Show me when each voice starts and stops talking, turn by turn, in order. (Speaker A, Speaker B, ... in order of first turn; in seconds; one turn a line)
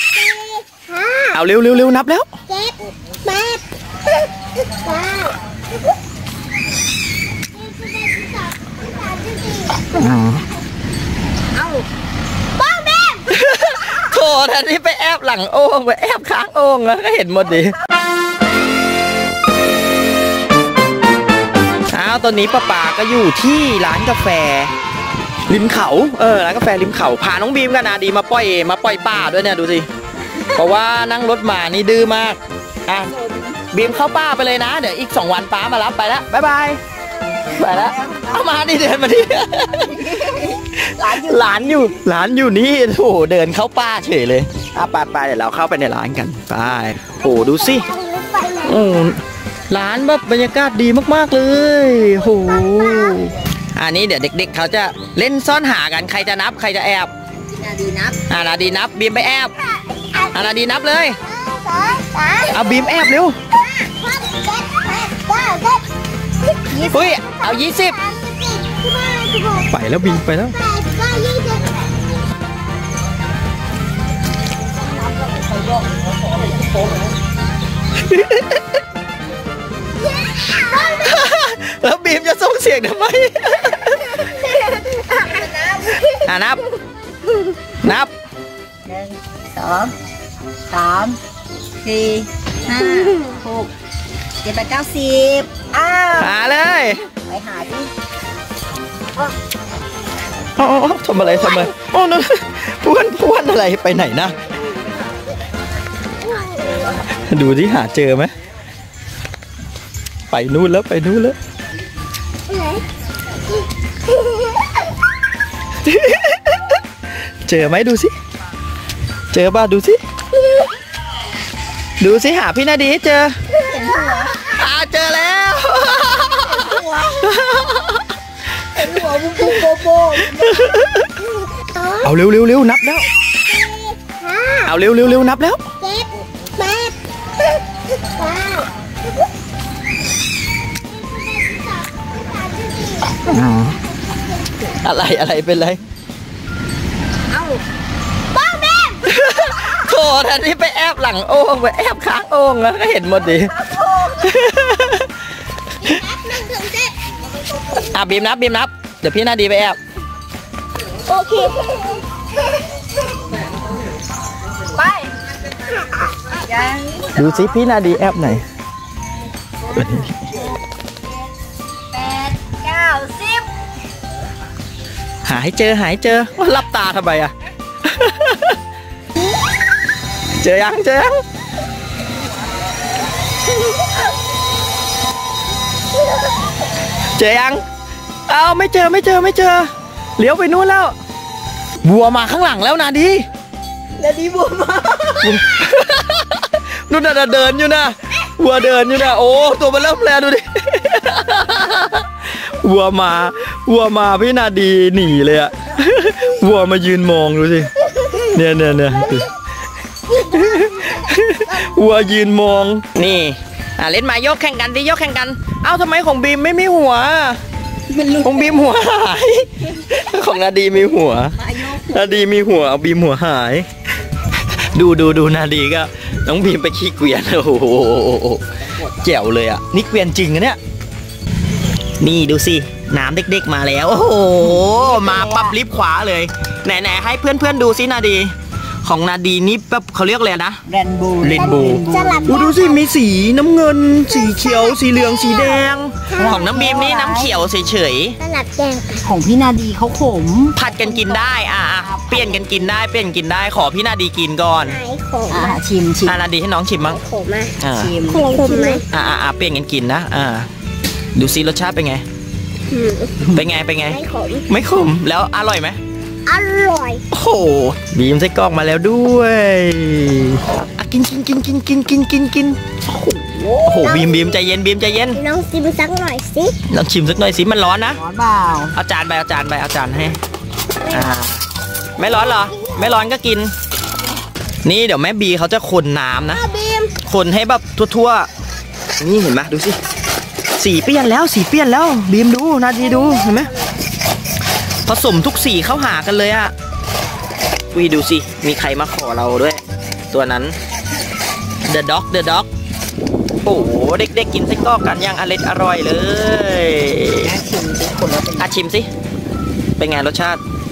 Speaker A: 0.1-1.4
Speaker B: 1.3-2.3
Speaker A: 2.5-5.4
Speaker A: 7.5-10.1
Speaker B: 9.9-10.4
Speaker A: 11.5-11.8
Speaker A: 12.6-13.3
Speaker B: 13.3-17.8
Speaker B: 21.9-24.7
Speaker B: 25.5-29.9
Speaker B: 30.5-33.1
Speaker B: 33.7-36.8
Speaker B: 37.5-40.5
Speaker C: 37.6-38.5
Speaker C: 39.8-41.9
Speaker B: 41.0-47.9
Speaker A: 47.3-49.0
Speaker B: 48.6-57.1
Speaker A: 52.6-53.2
Speaker C: 57.5-58.2
Speaker B: 58.3-59.5
Speaker A: 60.1-60.5
Speaker B: 60.3-61.2
Speaker A: 61.2-62.9
Speaker B: 62.5-63.4
Speaker A: 63.5-65.8
Speaker A: 66.6-69.7
Speaker C: 66.7-67.1
Speaker B: 66.9-68.0
Speaker B: 69.7-70.6
Speaker A: 70.4-71.8
Speaker B: 78.0-78.6
Speaker A: 80.2-81.2
Speaker B: 80.6-84.2
Speaker A: 84.2-85.5
Speaker C: 85.2-85.8
Speaker B: 86.1-86.6
Speaker B: 87.8-88.1
Speaker C: 88.8-89.9
Speaker C: 90.7-91.2
Speaker C: 91.8-93.7
Speaker C: 94.4-96.3
Speaker B: 96.2-97.0
Speaker C: 97.3-97.9
Speaker B: 100.6-104.3
Speaker A: 106.2-106.8
Speaker B: 107.3-108.3
Speaker B: 110.3-111.3
Speaker A: 112.5-112.8
Speaker A: 114.1-114.5
Speaker B: 115.8-116.8
Speaker B: 117.5-118.1
Speaker B: 119.3-120.0
Speaker B: 122.0-123.3
Speaker C: 123.6-124.4
Speaker B: 124.4-128.2
Speaker A: 126.6-127.0
Speaker C: 128.8-130.6
Speaker B: 130.2-131.1
Speaker A: 131.2-132.1
Speaker B: 132.0-133.1
Speaker A: 133.5-134.7
Speaker B: 134.7-135.6
Speaker A: 135.8-138.7
Speaker A: 140.8-143.4
Speaker B: 143.3-143.8
Speaker A: 144.1-144.6
Speaker B: 144.8-145.8
Speaker A: 147.3-147.6
Speaker A: 148.3-149.7
Speaker B: 149.1-155.2
Speaker A: 153.7-154.1
Speaker A: 155.8-156.9
Speaker B: 157.7-159.8
Speaker A: 161.1-162.0
Speaker C: 164.8-165.1
Speaker C: 166.4-167.6
Speaker B: 167.2-168.4
Speaker B: 169.7-170.2
Speaker C: 171.9-173.4
Speaker B: 175.2-177.3
Speaker B: 177.8-178.6
Speaker B: 180.4-181.2
Speaker B: 187.2-187.6
Speaker B: 188.3-190.9
Speaker B: 191.8-193.2
Speaker C: 194.0-195.4
Speaker B: 195.2-209.3
Speaker B: 210.1-217.4
Speaker C: 217.9-218.7
Speaker B: 218.2-223.7
Speaker C: 221.4-222.2
Speaker B: 224.4-230.6
Speaker B: 232.0-240.6
Speaker C: 234.4-235.6
Speaker C: 240.7-242.5
Speaker B: 241.2-248.2
Speaker A: 241.3-242.8
Speaker A: 244.1-246.6
Speaker C: 246.2-247.4
Speaker A: 248.2-249.1
Speaker C: 249.0-251.3
Speaker B: 250.6-254.8
Speaker C: 251.8-252.7
Speaker A: 254.6-255.6
Speaker C: 255.3-256.2
Speaker B: 256.1-257.0
Speaker A: 256.8-257.6
Speaker B: 257.6-258.0
Speaker C: 257.7-258.8
Speaker A: 258.1-258.9
Speaker B: 258.9-260.5
Speaker B: 261.1-262.0
Speaker A: 262.7-263.4
Speaker B: 263.3-265.8
Speaker A: 263.9-264.5
Speaker A: 266.3-267.0
Speaker B: 267.1-272.6
Speaker C: 272.9-274.0
Speaker B: 273.6-275.2
Speaker A: 273.8-274.3
Speaker A: 275.1-276.6
Speaker B: 276.7-278.0
Speaker C: 278.0-278.8
Speaker B: 278.7-280.2
Speaker A: 280.9-281.1
Speaker B: 280.9-281.4
Speaker B: 282.0-283.5
Speaker A: 282.1-282.8
Speaker B: 284.6-286.4
Speaker A: 286.3-287.0
Speaker B: 287.0-288.3
Speaker B: 289.0-289.8
Speaker B: 290.6-293.5
Speaker B: 294.9-296.5
Speaker B: 297.7-300.6
Speaker B: 301.6-302.5
Speaker B: 303.4-307.3
Speaker C: 307.2-308.5
Speaker B: 308.4-308.9
Speaker B: 309.8-310.4